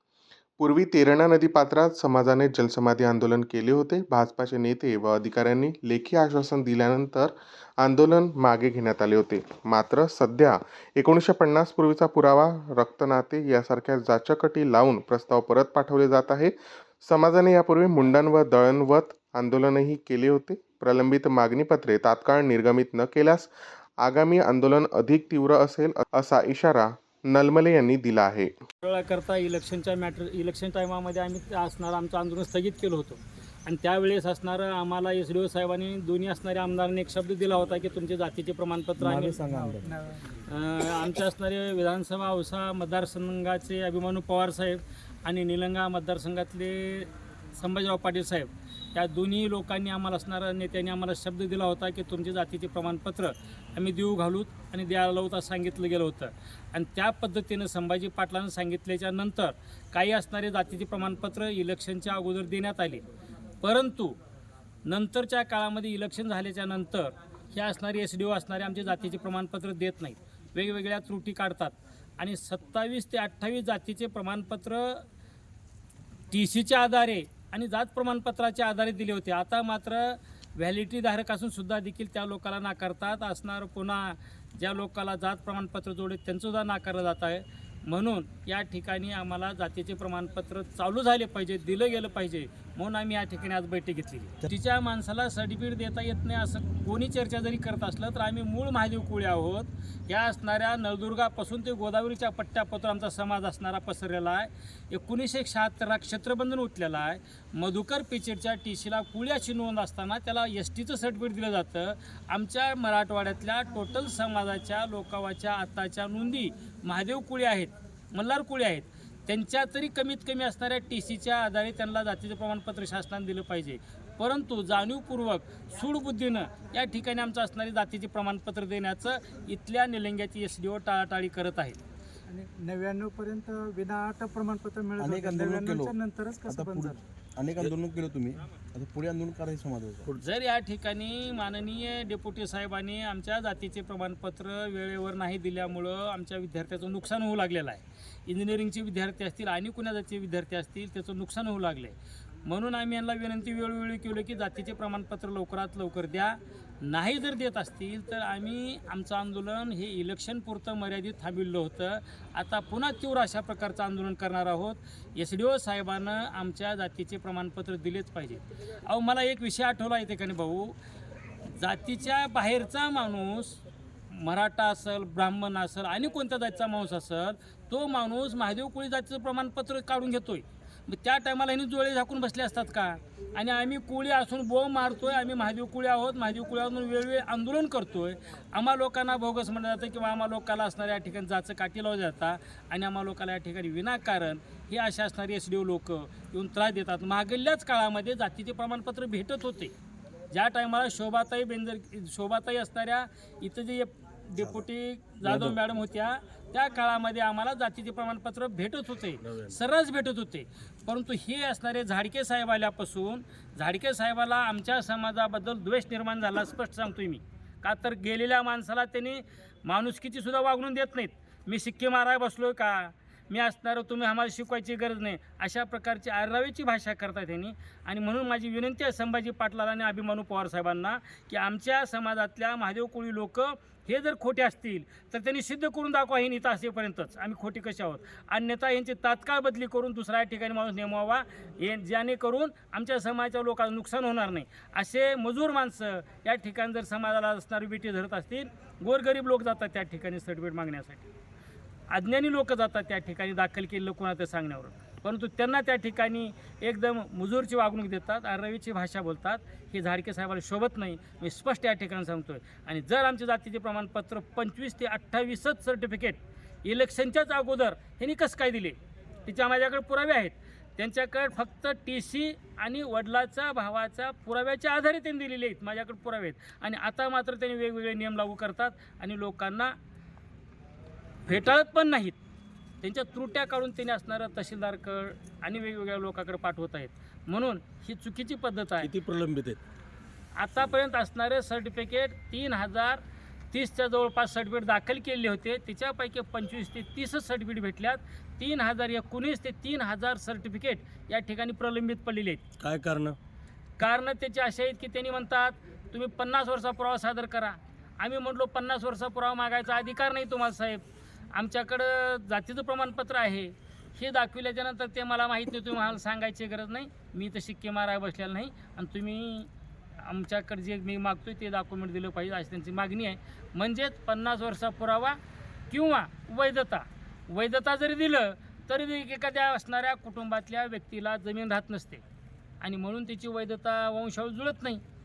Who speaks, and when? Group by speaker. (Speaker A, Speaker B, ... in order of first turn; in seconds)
Speaker A: 0.6-23.5, 24.0-28.5
Speaker B: 28.8-39.4, 40.4-63.0, 63.6-64.2, 64.8-75.0, 76.3-131.8, 140.2-170.8, 171.5-199.7, 200.3-251.1, 251.9-279.7, 281.3-282.2, 282.8-288.9, 290.4-302.4, 303.8-310.8, 311.3-325.2, 325.7-332.0, 332.6-334.8
Speaker C: 39.0-40.0, 135.0-136.0, 136.5-140.2, 209.2-209.6, 288.8-289.6, 302.6-303.2
Speaker D: 39.4-40.3, 132.3-137.0